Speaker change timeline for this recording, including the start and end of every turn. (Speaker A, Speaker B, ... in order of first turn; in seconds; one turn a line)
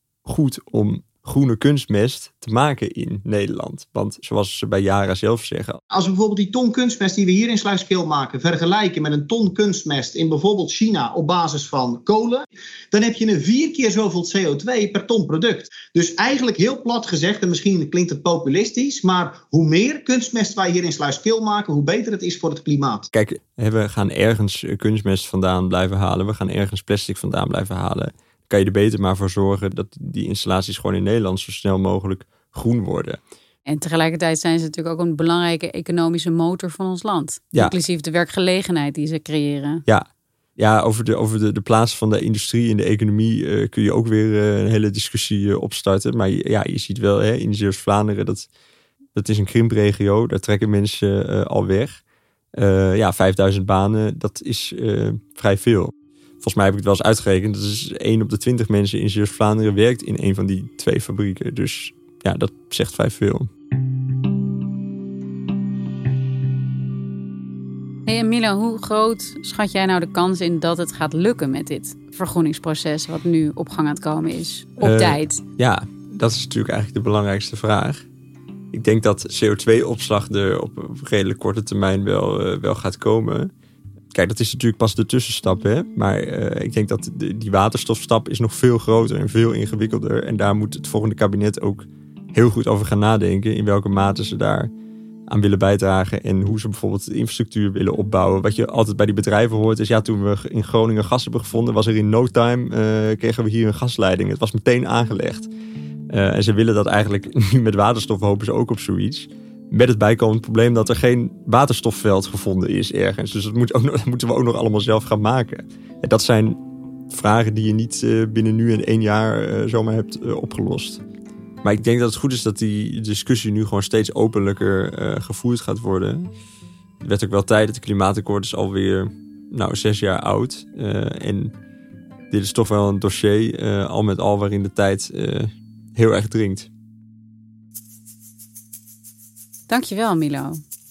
Speaker A: 0.3-5.8
Speaker B: 5.9-23.1
Speaker A: 23.1-33.2
Speaker C: 33.7-39.9
Speaker A: 40.6-48.5
Speaker A: 49.1-52.0
Speaker A: 52.5-63.5
Speaker C: 68.1-75.4
Speaker A: 74.8-78.1
Speaker A: 78.7-83.5
Speaker A: 84.1-94.7
Speaker A: 95.3-105.5
Speaker A: 106.1-121.0
Speaker A: 121.6-126.3
Speaker A: 127.0-131.5
Speaker A: 132.3-136.7
Speaker C: 139.7-140.6